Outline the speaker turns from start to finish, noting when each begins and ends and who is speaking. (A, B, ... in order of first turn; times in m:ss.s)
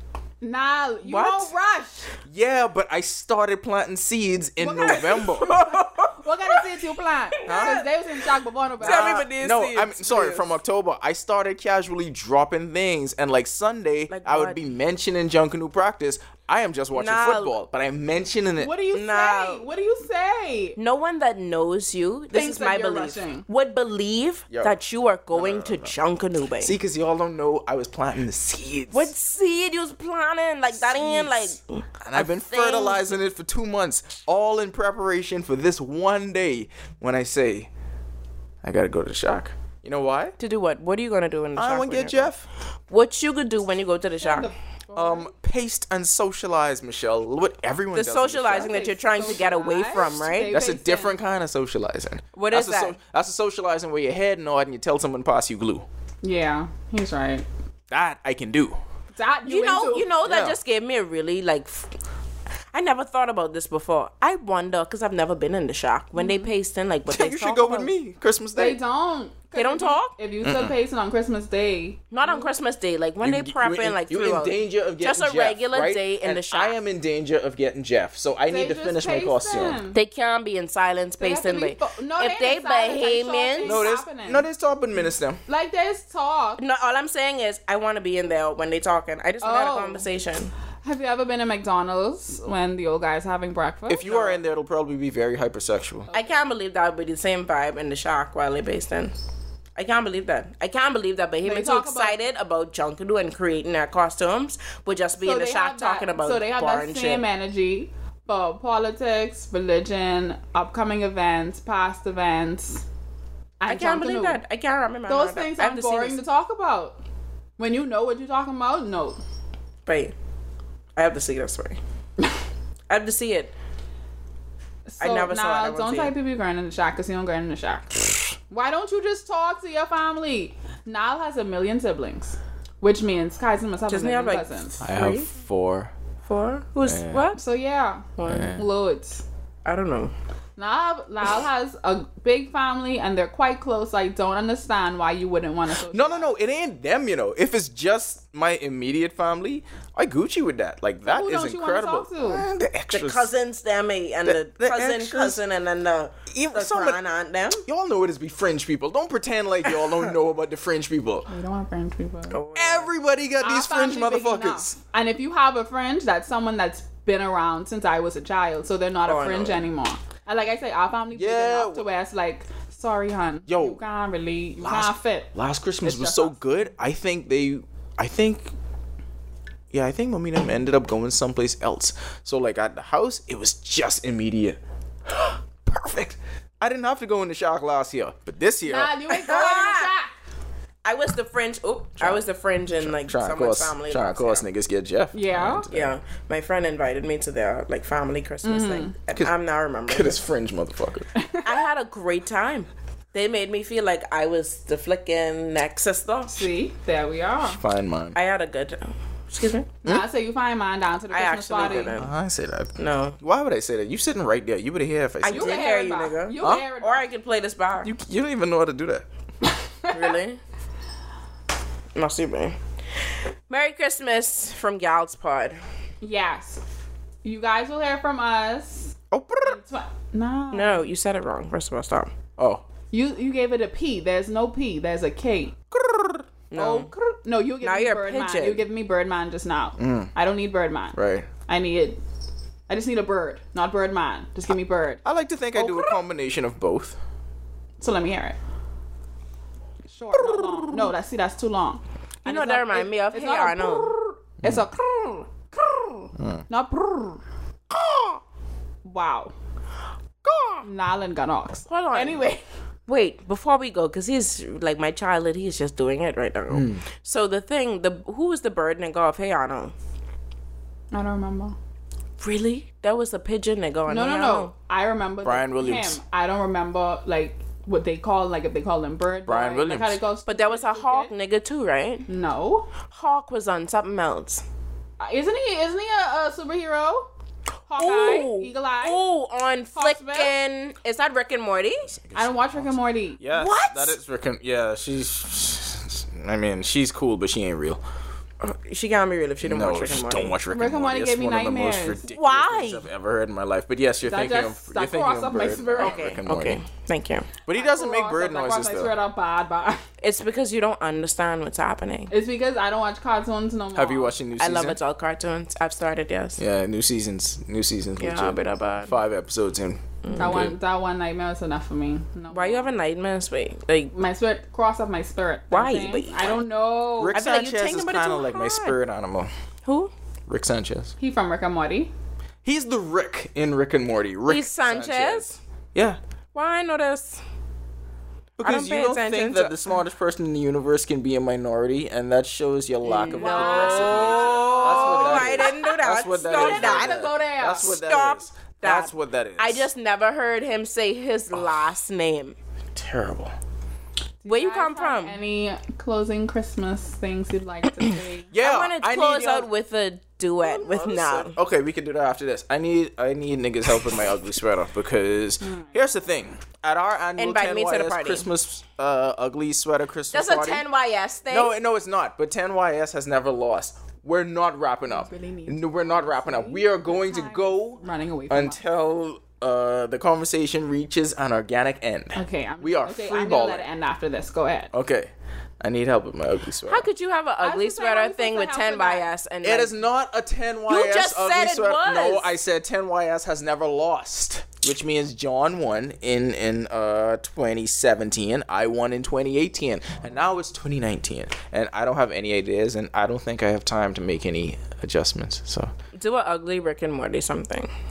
0:00.4-0:02.1 A
0:01.0-0:01.5 B
0:02.2-0:05.5 C
0:04.6-0:09.3 A
0:04.9-0:06.8 B
0:07.3-0:07.9 B
0:07.4-0:07.8 C
0:08.8-0:10.5 B
0:08.8-0:18.7 C
0:14.1-0:14.6 B
0:16.9-0:17.6 B
0:18.6-0:20.8 A
0:18.9-0:19.6 B
0:20.8-0:26.8 B
0:22.3-0:23.4 A
0:24.5-0:24.7 C
0:25.3-0:25.9 C
0:26.6-0:29.1 C
0:28.9-0:33.1 B
0:30.8-0:37.7 C
0:38.6-0:40.3 C
0:40.4-0:42.3 B
0:41.6-0:42.4 C
0:42.9-0:44.5 B
0:44.2-0:45.3 A
0:44.9-0:48.8 C
0:47.9-0:50.5 B
0:48.6-0:51.1 A
0:50.5-0:55.8 C
0:52.3-0:53.0 B
0:56.2-0:57.4 A
0:57.9-0:58.8 C
0:59.1-1:00.1 A
0:59.4-1:01.9 B
1:00.2-1:00.6 C
1:02.7-1:07.9 B
1:06.1-1:06.5 A
1:07.1-1:08.8 C
1:08.6-1:12.5 A
1:09.5-1:10.1 B
1:10.4-1:10.7 C
1:12.1-1:16.8 B
1:13.2-1:19.8 C
1:18.5-1:20.0 A
1:19.9-1:23.8 B
1:21.2-1:24.4 A
1:23.6-1:25.4 C
1:25.4-1:26.6 A
1:26.6-1:30.5 B
1:29.4-1:30.0 A
1:30.8-1:34.4 A
1:33.9-1:36.1 C
1:36.1-1:39.1 B
1:39.8-1:47.2 B
1:41.4-1:42.2 A
1:45.2-1:52.8 A
1:53.6-1:54.4 A
1:53.7-1:56.2 B
1:55.0-1:57.0 A
1:57.6-1:59.2 A
1:59.8-2:00.1 B
2:01.0-2:01.8 B
2:02.9-2:03.5 B
2:04.8-2:08.0 A
2:05.0-2:06.1 B
2:08.5-2:14.8 A
2:13.9-2:15.3 B
2:14.8-2:15.9 C
2:16.2-2:17.4 B
2:16.8-2:17.2 C
2:17.3-2:19.2 A
2:18.2-2:18.6 B
2:18.2-2:18.7 C
2:19.6-2:20.1 B
2:20.6-2:26.3 A
2:25.9-2:33.3 C
2:31.0-2:32.4 A
2:32.9-2:37.6 B
2:34.2-2:35.4 C
2:36.3-2:37.0 C
2:37.6-2:41.3 C
2:41.3-2:42.4 A
2:42.3-2:42.9 B
2:42.5-2:44.8 C
2:43.4-2:55.3 A
2:49.0-2:49.6 B
2:51.1-2:51.8 C
2:53.5-2:53.8 C
2:54.6-2:58.5 C
2:55.8-2:56.4 A
2:59.7-3:09.0 C
3:08.6-3:10.1 A
3:09.1-3:09.9 B
3:10.8-3:14.4 B
3:12.8-3:16.0 C
3:15.1-3:15.7 A
3:15.7-3:20.2 B
3:18.4-3:18.9 A
3:19.9-3:21.1 C
3:21.1-3:21.6 A
3:21.4-3:26.4 B
3:26.3-3:27.6 A
3:27.4-3:28.2 C
3:28.1-3:29.7 B
3:29.8-3:31.9 A
3:31.1-3:32.1 B
3:31.6-3:35.6 C
3:32.8-3:33.2 B
3:35.2-3:37.9 B
3:35.2-3:37.0 A
3:36.4-3:36.6 C
3:37.8-3:39.0 C
3:39.4-3:40.1 A
3:39.9-3:40.4 B
3:41.9-3:42.6 B
3:43.5-3:45.6 B
3:46.0-3:46.6 A
3:47.2-3:50.8 A
3:49.1-3:49.6 C
3:50.5-3:52.1 B
3:52.4-3:52.6 C
3:52.9-3:55.6 A
3:55.7-3:56.2 C
3:56.5-3:56.9 B
3:56.5-4:02.0 A
3:57.6-3:58.6 B
3:59.8-4:00.1 C
4:00.9-4:01.3 C
4:02.7-4:05.0 A
4:05.0-4:07.0 C
4:05.5-4:05.9 A
4:07.8-4:08.4 A
4:09.9-4:17.2 A
4:10.2-4:10.9 C
4:12.2-4:13.9 B
4:16.2-4:16.4 C
4:17.7-4:18.2 B
4:18.8-4:19.3 A
4:20.2-4:20.6 B
4:20.6-4:22.4 A
4:21.7-4:22.2 B
4:22.9-4:29.7 B
4:26.5-4:26.8 C
4:30.9-4:31.6 A
4:32.2-4:34.5 B
4:33.9-4:41.1 A
4:35.2-4:36.0 C
4:39.2-4:40.0 C
4:40.3-4:42.1 B
4:42.1-4:42.7 A
4:42.9-4:44.4 B
4:45.0-4:47.1 A
4:47.7-4:49.0 A
4:47.8-4:51.9 B
4:49.7-4:50.3 A
4:51.9-4:57.8 C
4:52.1-4:53.2 A
4:53.3-4:54.0 B
4:58.4-5:00.3 B
4:59.4-5:06.6 C
5:00.5-5:02.0 A
5:02.1-5:02.8 B
5:04.0-5:06.0 A
5:05.8-5:07.3 B
5:07.4-5:08.9 C
5:07.5-5:09.8 A
5:10.0-5:12.1 B
5:12.1-5:14.2 A
5:13.7-5:14.8 C
5:14.4-5:16.4 B
5:16.4-5:20.6 C
5:18.0-5:19.0 B
5:20.0-5:20.5 B
5:20.1-5:22.7 A
5:22.3-5:23.9 B
5:23.9-5:27.2 A
5:25.5-5:26.3 B
5:27.0-5:29.3 C
5:27.1-5:28.8 B
5:29.6-5:29.9 B
5:30.3-5:30.9 C
5:31.0-5:31.9 A
5:32.4-5:36.0 C
5:34.3-5:35.4 B
5:36.3-5:37.2 B
5:38.4-5:49.7 C
5:38.4-5:39.6 B
5:42.8-5:52.3 B
5:43.1-5:45.7 A
5:46.3-5:47.8 A
5:52.7-5:53.3 C
5:54.2-5:58.3 A
5:54.3-5:55.2 B
5:58.3-5:59.5 C
5:58.4-6:01.4 B
6:00.4-6:10.6 C
6:05.4-6:06.1 A
6:07.2-6:08.3 B
6:10.1-6:11.5 B
6:11.3-6:23.7 C
6:14.9-6:18.6 A
6:22.1-6:24.7 A
6:24.7-6:26.8 C
6:26.7-6:29.8 B
6:27.4-6:29.1 A
6:29.4-6:45.7 C
6:30.7-6:32.3 B
6:45.9-6:47.7 B